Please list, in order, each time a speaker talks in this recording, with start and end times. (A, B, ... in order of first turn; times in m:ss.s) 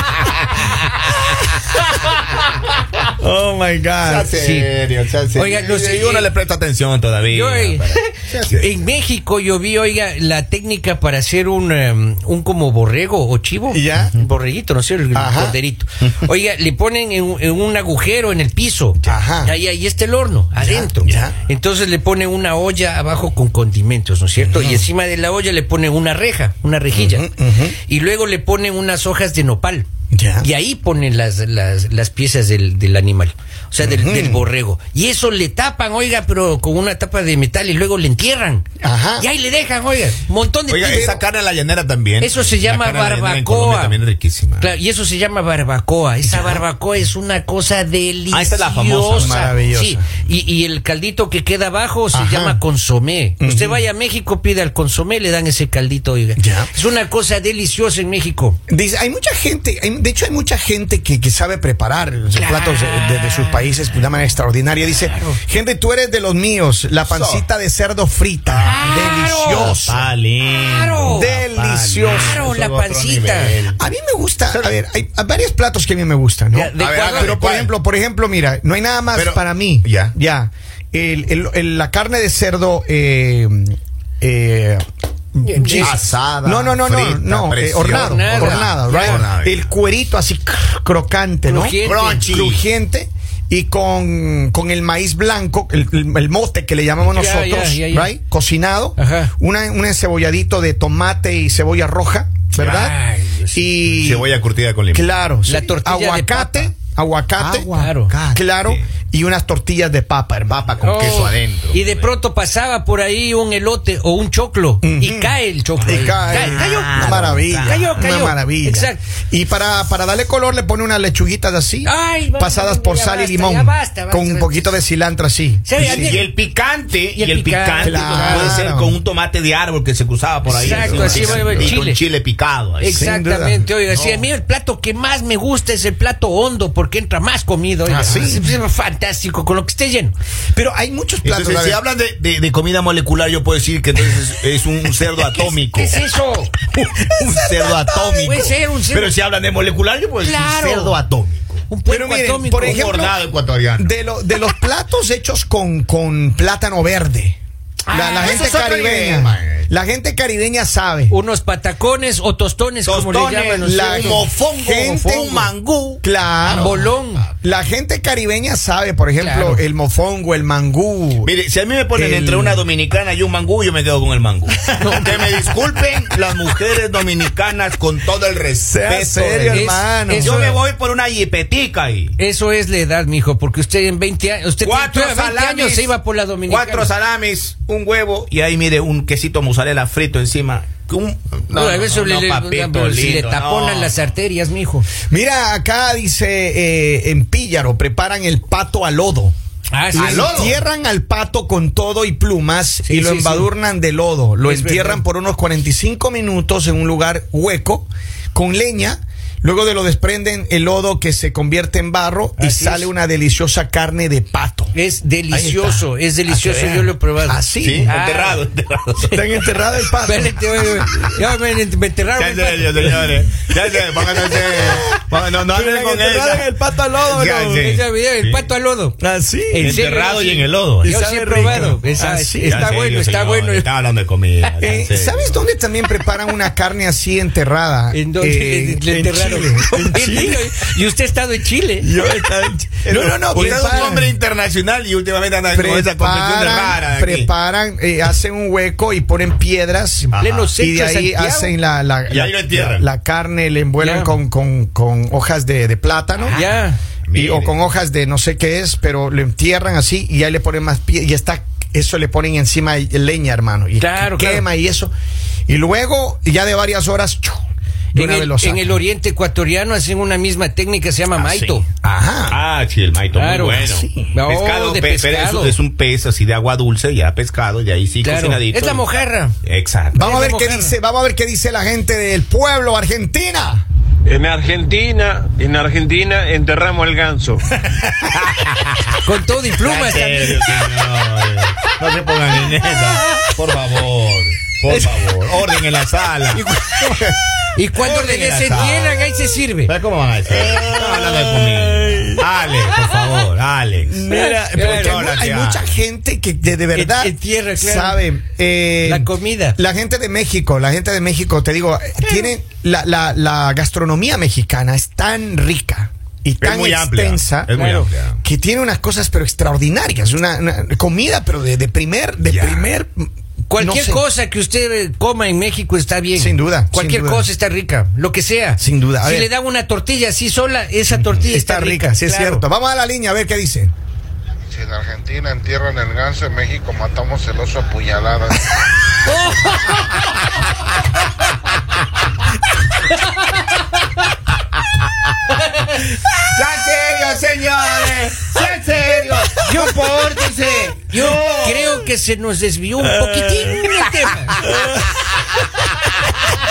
0:03.2-0:04.3 A
0:04.0-0:08.7 B
0:04.3-0:04.7 C
0:05.3-0:06.3 C
0:07.3-0:27.3 C
0:13.7-0:14.2 A
0:15.1-0:15.6 A
0:19.0-0:19.5 A
0:20.6-0:21.4 A
0:24.4-0:24.9 A
0:26.9-0:27.8 A
0:27.9-0:29.9 C
0:30.1-0:30.5 A
0:30.4-0:38.6 C
0:33.8-0:34.4 A
0:38.8-0:39.3 A
0:39.2-0:41.1 C
0:40.7-0:44.7 B
0:40.8-0:41.2 A
0:42.2-0:44.0 C
0:44.6-0:58.6 C
0:46.2-0:46.6 A
0:48.3-0:49.5 B
0:49.0-0:50.0 A
0:52.1-0:52.6 A
0:53.4-0:53.8 A
0:56.4-0:56.7 A
0:58.7-1:10.0 A
1:02.3-1:04.0 C
1:05.0-1:05.4 C
1:07.0-1:07.5 B
1:08.5-1:13.8 B
1:08.6-1:09.8 C
1:10.5-1:11.3 C
1:11.1-1:12.4 A
1:12.0-1:13.6 C
1:13.7-1:42.9 A
1:16.5-1:17.4 C
1:16.8-1:17.7 B
1:19.1-1:20.1 B
1:25.4-1:25.9 C
1:25.7-1:29.6 B
1:27.8-1:29.2 C
1:31.5-1:32.3 C
1:31.8-1:32.6 B
1:37.0-1:38.1 C
1:39.0-1:39.3 C
1:42.6-1:42.9 B
1:42.6-1:43.7 C
1:43.5-1:44.3 A
1:44.0-1:45.1 B
1:44.9-1:50.7 A
1:45.4-1:46.7 C
1:47.4-1:48.8 B
1:47.7-1:48.1 C
1:50.5-1:52.1 B
1:50.8-1:59.0 C
1:54.8-2:06.2 A
1:55.9-1:58.0 B
2:01.8-2:04.7 C
2:05.6-2:06.3 C
2:05.8-2:13.0 B
2:07.1-2:08.7 C
2:07.8-2:09.0 A
2:10.5-2:11.8 A
2:10.5-2:12.0 C
2:12.8-2:20.1 C
2:12.9-2:13.6 A
2:17.9-2:18.5 A
2:20.5-2:21.8 A
2:21.2-2:26.0 B
2:25.4-2:26.5 C
2:26.7-2:31.6 B
2:27.2-2:28.6 A
2:28.2-2:29.1 C
2:30.2-2:31.0 C
2:31.7-2:32.9 C
2:31.8-2:33.2 A
2:32.5-2:33.9 B
2:33.8-2:37.4 A
2:37.9-2:38.6 C
2:37.9-2:41.1 A
2:38.2-2:39.7 B
2:41.1-2:44.3 C
2:42.8-2:46.7 B
2:43.6-2:45.2 A
2:45.0-2:45.5 C
2:46.0-2:46.9 A
2:46.4-2:47.3 C
2:47.4-2:51.3 A
2:49.2-2:49.6 C
2:51.2-3:02.1 B
2:51.9-2:52.6 A
2:54.6-2:56.4 A
2:54.8-2:55.2 C
2:58.6-3:00.4 A
2:59.5-3:00.6 C
3:02.2-3:06.9 C
3:04.6-3:05.9 B
3:06.5-3:14.0 B
3:11.5-3:14.9 C
3:15.1-3:19.3 A
3:19.7-3:20.5 C
3:19.9-3:20.5 B
3:19.9-3:34.7 A
3:22.8-3:23.5 C
3:24.4-3:25.0 C
3:32.4-3:32.9 C
3:34.7-3:38.4 C
3:35.3-3:37.9 A
3:37.6-3:39.2 B
3:39.1-3:41.2 A
3:40.0-3:43.0 C
3:42.2-3:48.5 B
3:43.9-3:47.8 A
3:47.6-3:49.0 C
3:49.0-3:49.8 A
3:49.5-3:53.7 C
3:49.6-3:51.7 B
3:50.8-3:52.8 A
3:52.4-3:55.4 B
3:54.4-3:54.7 C
3:54.6-4:00.5 A
3:57.9-4:01.9 C
4:01.8-4:04.1 A
4:02.8-4:07.3 B
4:03.3-4:04.0 C
4:05.5-4:16.4 A
4:10.1-4:10.5 B
4:10.1-4:11.5 C
4:12.1-4:12.9 B
4:13.8-4:14.1 C
4:16.3-4:16.8 C
4:17.0-4:17.6 B
4:17.1-4:24.9 A
4:23.8-4:24.4 C
4:25.5-4:27.4 A
4:27.9-4:31.6 C
4:27.9-4:28.8 A
4:31.1-4:32.4 A
4:32.3-4:38.8 B
4:33.1-4:35.6 C
4:33.6-4:34.1 A
4:38.0-4:39.3 C
4:39.4-4:40.0 B
4:39.9-4:43.6 A
4:40.0-4:40.7 C
4:44.0-4:47.4 D
4:47.8-4:49.0 B
4:49.0-4:50.5 C
4:49.5-4:57.2 B
4:54.7-4:55.2 C
4:56.3-4:59.7 C
4:57.8-4:59.1 B
4:59.6-5:05.7 B
5:00.3-5:02.2 A
5:03.8-5:17.6 A
5:04.1-5:05.0 C
5:06.7-5:08.0 C
5:08.8-5:09.6 C
5:16.4-5:18.2 B
5:17.5-5:17.9 C
5:18.2-5:24.0 A
5:22.2-5:22.7 B
5:23.5-5:32.4 C
5:26.1-5:27.3 A
5:28.6-5:29.3 A
5:30.9-5:33.7 A
5:34.7-5:38.2 E
5:39.0-5:39.9 C
5:46.1-5:51.8 B
5:49.1-5:49.9 A
5:50.9-5:54.5 C
5:52.8-5:53.6 A
5:54.4-5:55.6 A